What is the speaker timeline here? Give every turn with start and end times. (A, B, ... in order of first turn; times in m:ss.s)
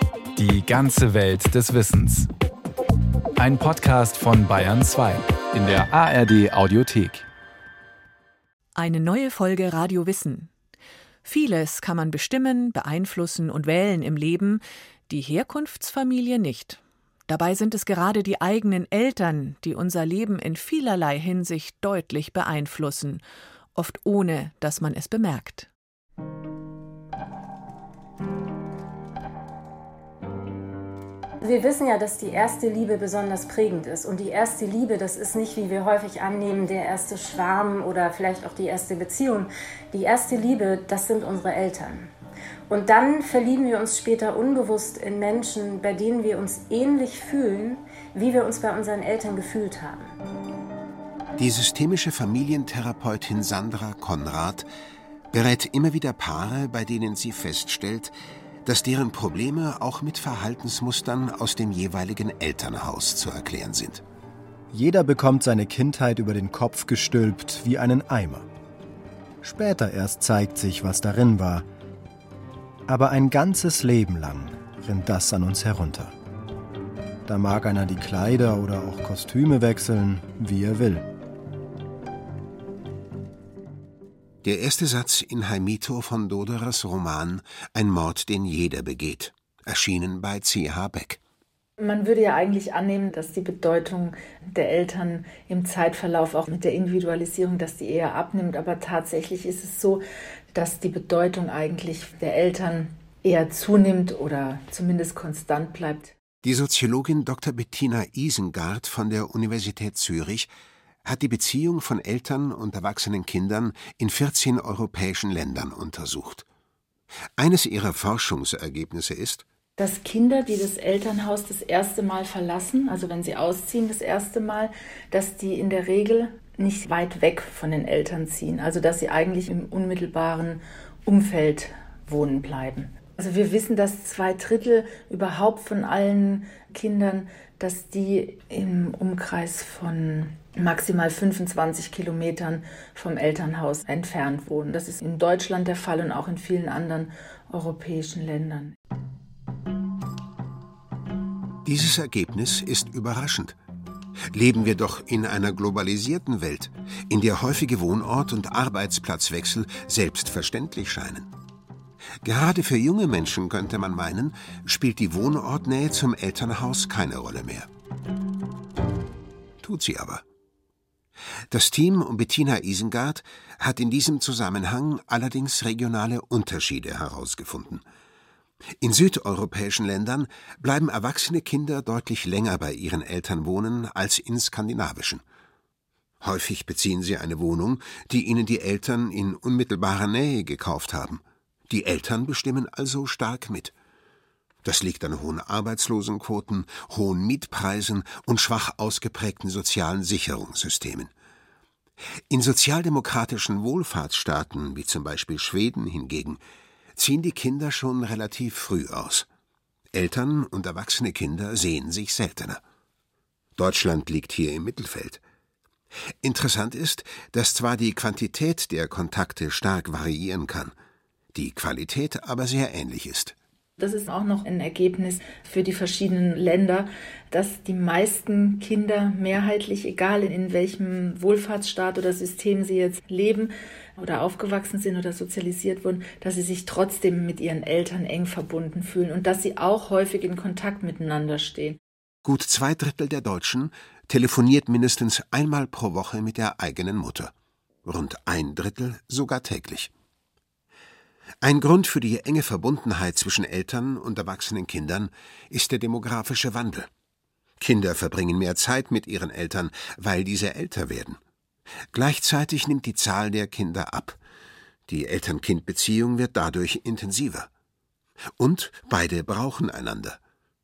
0:00.4-0:02.3 A
0:03.4-0:07.2 A
0:08.7-0:10.5 B
0:11.2-0:23.2 B
0:23.7-0:25.7 B
0:31.4-0:42.1 C
0:42.7-0:50.1 C
0:51.4-0:54.7 D
0:55.3-0:58.1 D
0:58.6-1:04.0 D
1:04.7-1:08.5 E
1:09.4-1:11.6 E
1:12.9-1:16.1 E
1:17.3-1:21.0 E
1:24.4-1:31.2 D
1:31.8-1:40.0 F
1:40.5-1:46.1 F
1:46.4-1:50.5 D
1:51.0-1:56.4 D
1:57.4-1:59.4 D
1:59.8-2:28.7 F
2:31.6-2:33.6 D
2:34.3-2:41.3 D
2:42.2-2:47.7 D
2:49.6-2:50.2 D
2:51.5-2:57.8 D
2:58.8-3:05.2 D
3:06.2-3:13.7 D
3:14.6-3:21.1 D
3:22.3-3:26.4 D
3:27.0-3:29.2 D
3:29.9-3:32.6 D
3:33.6-3:35.2 D
3:36.2-3:40.7 D
3:41.3-3:43.3 D
3:43.8-4:01.8 F
4:02.2-4:07.3 D
4:07.8-4:09.9 D
4:11.4-4:16.9 D
4:17.6-4:21.2 D
4:21.9-4:24.2 D
4:24.9-4:27.5 D
4:28.4-4:30.2 D